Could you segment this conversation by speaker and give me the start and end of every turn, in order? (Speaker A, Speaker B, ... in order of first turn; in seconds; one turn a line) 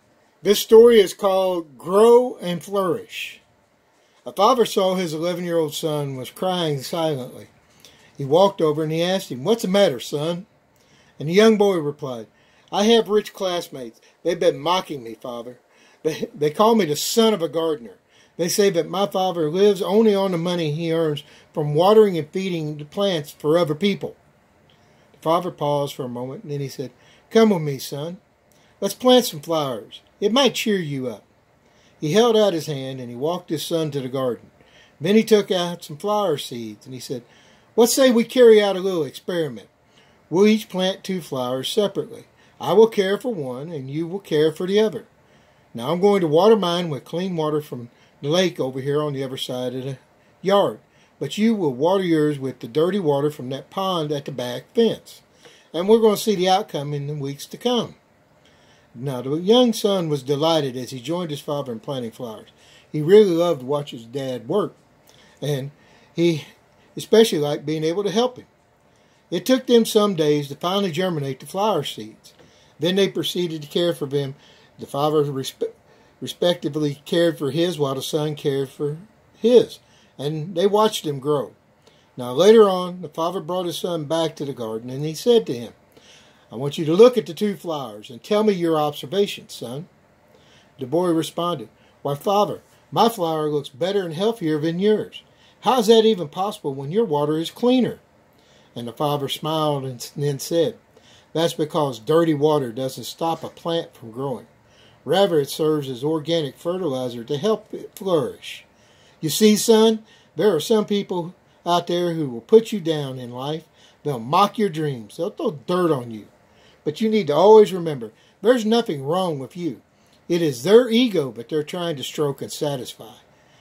Speaker A: 0.4-3.4
Speaker A: 4.2-7.5
Speaker A: 8.2-10.5
Speaker A: 11.2-24.2
Speaker A: 25.1-28.2
Speaker A: 28.8-31.2
Speaker A: 32.0-39.7
Speaker A: 40.3-45.1
Speaker A: 45.7-58.0
Speaker A: 58.9-64.8
Speaker A: 65.4-68.5
Speaker A: 69.3-81.6
Speaker A: 82.2-85.8
Speaker A: 86.5-89.9
Speaker A: 90.8-98.0
Speaker A: 98.7-100.8
Speaker A: 101.3-104.5
Speaker A: 105.0-108.7
Speaker A: 109.2-116.3
Speaker A: 116.8-123.2